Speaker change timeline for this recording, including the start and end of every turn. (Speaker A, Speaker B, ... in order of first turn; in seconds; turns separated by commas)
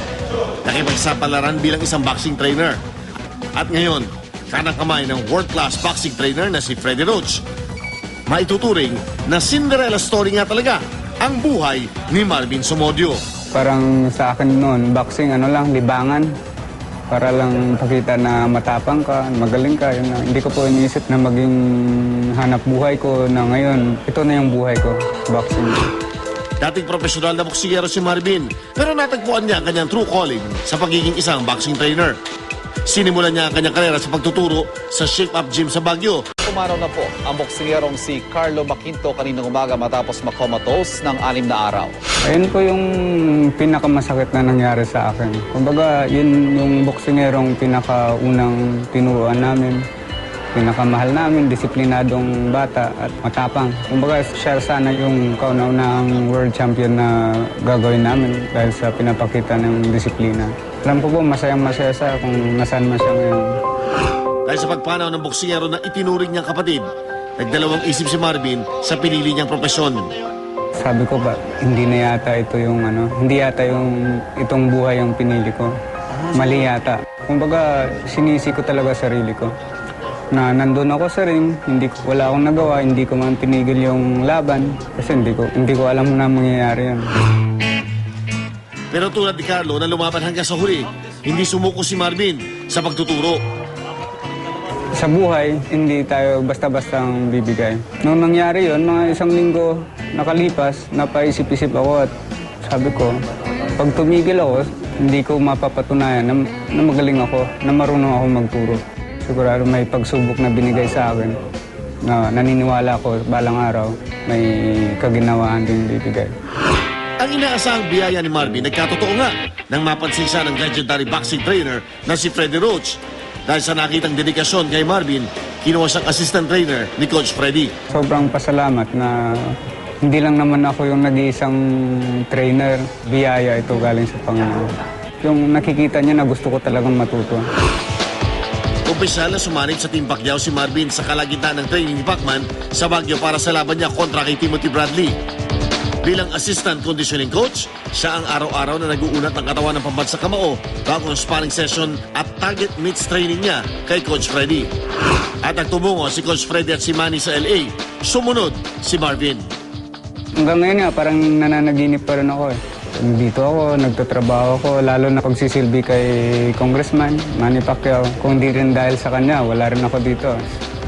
Speaker A: 0.6-2.8, Speaker A: 3.5-7.4, Speaker A: 8.3-13.2, Speaker B: 13.5-16.3, Speaker B: 17.1-25.9, Speaker A: 26.6-32.2, Speaker A: 32.9-36.3, Speaker C: 36.4-41.9, Speaker B: 42.2-49.8, Speaker B: 50.5-63.6, Speaker A: 64.5-70.1, Speaker B: 70.8-75.7, Speaker A: 76.3-76.7, Speaker B: 76.3-79.5, Speaker B: 80.3-87.1, Speaker A: 88.9-93.4, Speaker B: 95.0-102.1, Speaker B: 102.6-103.2, Speaker B: 103.8-111.4, Speaker B: 112.0-116.3, Speaker A: 117.2-127.7, Speaker B: 127.9-137.5, Speaker A: 138.9-145.2, Speaker A: 146.0-154.7, Speaker A: 155.4-159.4, Speaker B: 160.4-170.4